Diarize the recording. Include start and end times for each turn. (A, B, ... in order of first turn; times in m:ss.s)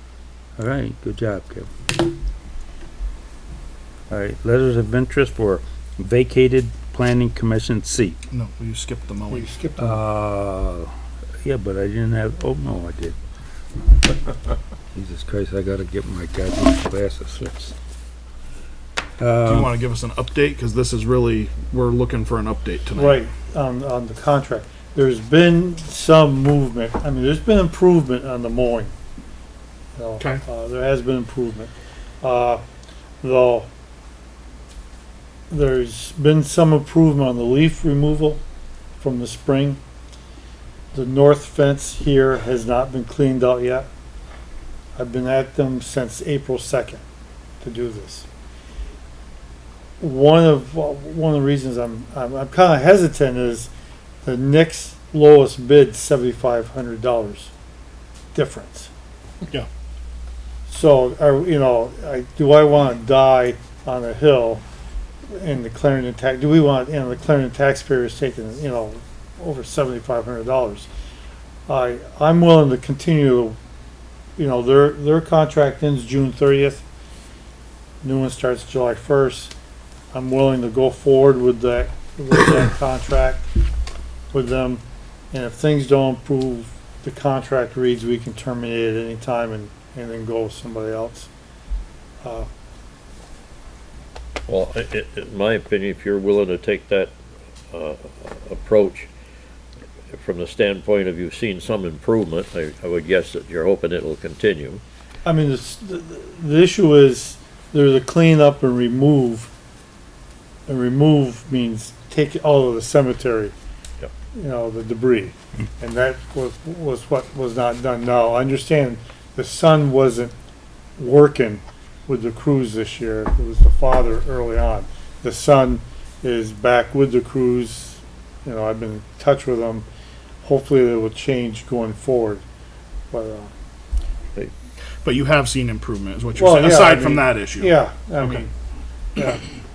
0:00.6-0:01.7 A
0:04.1-0:08.2 A
0:08.3-0:09.5 B
0:09.3-0:10.0 C
0:09.8-0:10.9 A
0:11.4-0:13.2 A
0:14.9-0:17.7 A
0:19.2-0:19.7 A
0:19.4-0:23.2 B
0:23.0-0:28.9 C
0:30.0-0:32.6 C
0:33.2-0:33.7 C
0:35.5-0:38.4 C
0:39.0-0:39.8 C
0:40.9-0:43.9 C
0:45.0-0:47.0 C
0:47.6-0:48.3 C
0:50.0-0:53.7 C
0:54.2-0:57.5 C
0:58.3-0:58.9 C
1:00.7-1:04.6 C
1:05.3-1:10.9 C
1:11.7-1:13.6 C
1:14.4-1:16.8 C
1:18.0-1:19.5 C
1:20.1-1:23.5 C
1:24.3-1:31.3 C
1:32.2-1:32.5 C
1:34.5-1:37.1 D
1:37.7-1:39.1 D
1:40.1-1:44.8 D
1:45.2-1:49.5 C
1:50.7-1:53.5 C
1:54.3-2:00.3 C
2:01.0-2:09.9 C
2:10.4-2:12.4 C
2:13.1-2:13.5 C
2:15.0-2:18.4 B
2:16.4-2:18.5 C
2:19.2-2:19.4 C